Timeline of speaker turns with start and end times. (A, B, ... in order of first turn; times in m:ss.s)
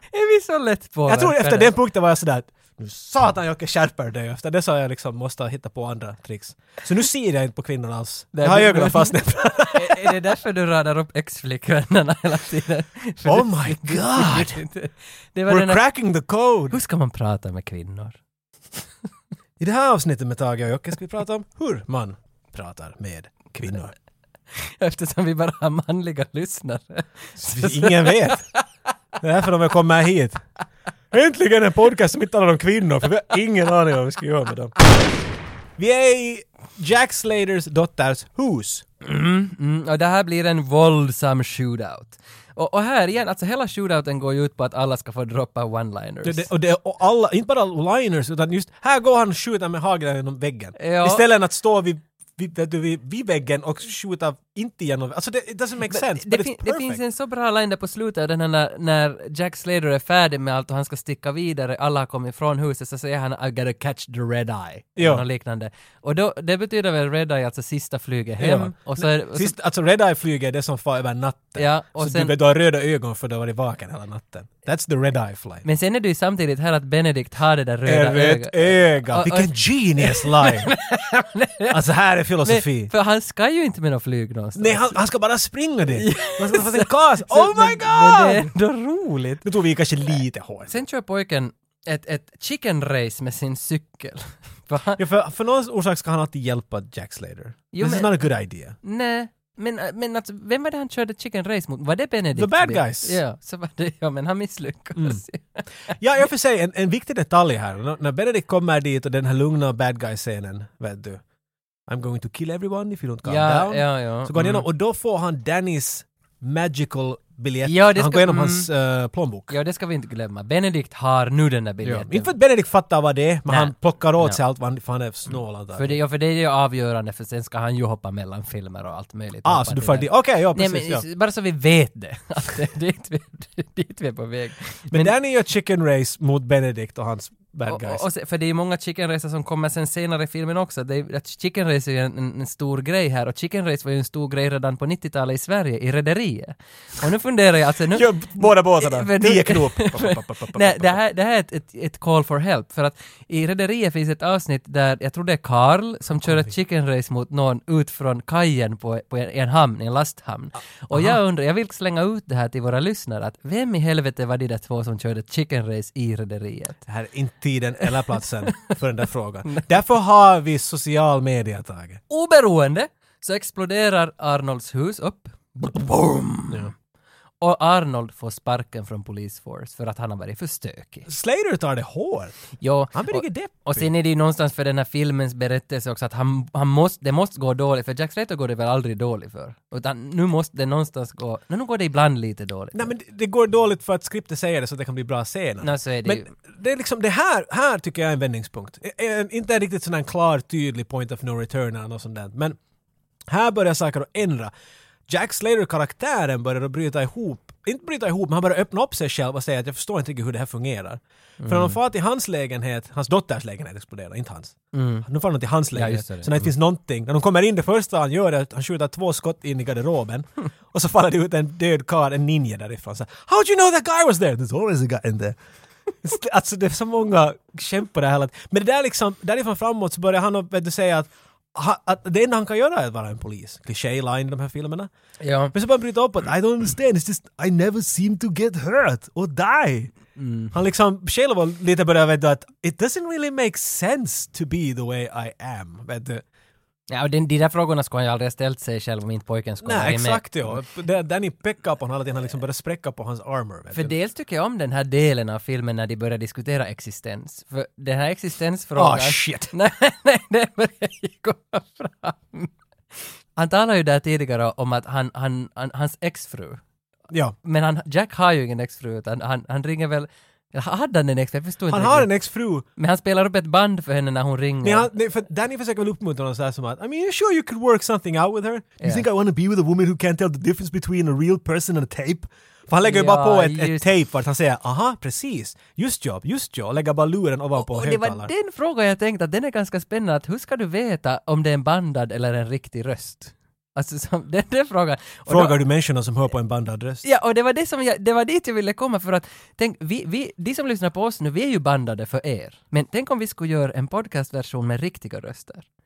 0:00.1-0:01.8 A
0:01.1-0:10.2 B
0:08.4-0:09.2 A
0:09.7-0:15.8 A
0:13.2-0:14.6 B
0:15.5-0:16.8 B
0:16.7-0:18.2 A
0:19.6-0:23.9 B
0:24.6-0:28.6 A
0:27.4-0:28.4 B
0:29.2-0:30.4 B
0:31.1-0:34.8 B
0:35.8-0:38.8 B
0:39.0-0:46.5 A
0:46.2-0:57.0 B
0:50.8-0:51.2 A
0:55.9-1:09.5 A
1:05.0-1:05.2 B
1:08.4-1:15.6 B
1:11.6-1:12.3 A
1:15.6-1:21.9 A
1:17.9-1:20.7 B
1:21.7-1:22.9 B
1:22.4-1:25.0 A
1:24.6-1:28.5 B
1:26.0-1:29.5 A
1:29.4-1:30.8 B
1:30.1-1:35.0 A
1:35.0-1:38.8 B
1:37.7-1:38.2 A
1:38.8-1:45.9 A
1:42.4-1:43.2 B
1:45.0-1:45.2 B
1:45.9-1:51.2 B
1:51.9-1:59.6 B
1:53.2-1:54.7 A
1:57.6-1:58.7 A
1:59.5-2:02.3 A
2:01.8-2:06.0 B
2:03.5-2:04.4 A
2:05.8-2:15.1 A
2:09.4-2:11.0 B
2:14.9-2:18.0 B
2:17.7-2:46.8 A
2:27.9-2:31.0 B
2:36.2-2:36.5 B
2:40.9-2:41.2 B
2:46.9-2:52.0 B
2:52.1-2:56.7 A
2:57.4-3:01.1 A
3:01.1-3:02.4 B
3:02.6-3:12.9 A
3:02.9-3:03.9 B
3:12.8-3:22.6 B
3:15.6-3:16.3 A
3:23.3-3:24.5 B
3:25.1-3:45.4 B
3:31.4-3:31.8 A
3:34.7-3:35.1 A
3:35.7-3:36.5 A
3:46.0-3:54.9 B
3:55.2-3:55.5 A
3:55.5-3:59.9 B
4:00.2-4:00.5 A
4:00.5-4:06.2 B
4:06.9-4:10.6 A
4:09.6-4:13.9 B
4:13.7-4:26.6 A
4:18.8-4:19.5 B
4:27.4-4:32.1 A
4:31.7-4:32.7 B
4:32.8-4:34.9 A
4:34.6-4:48.3 B
4:42.8-4:43.9 A
4:47.6-4:55.6 A
4:55.3-4:57.0 B
4:57.0-5:05.6 A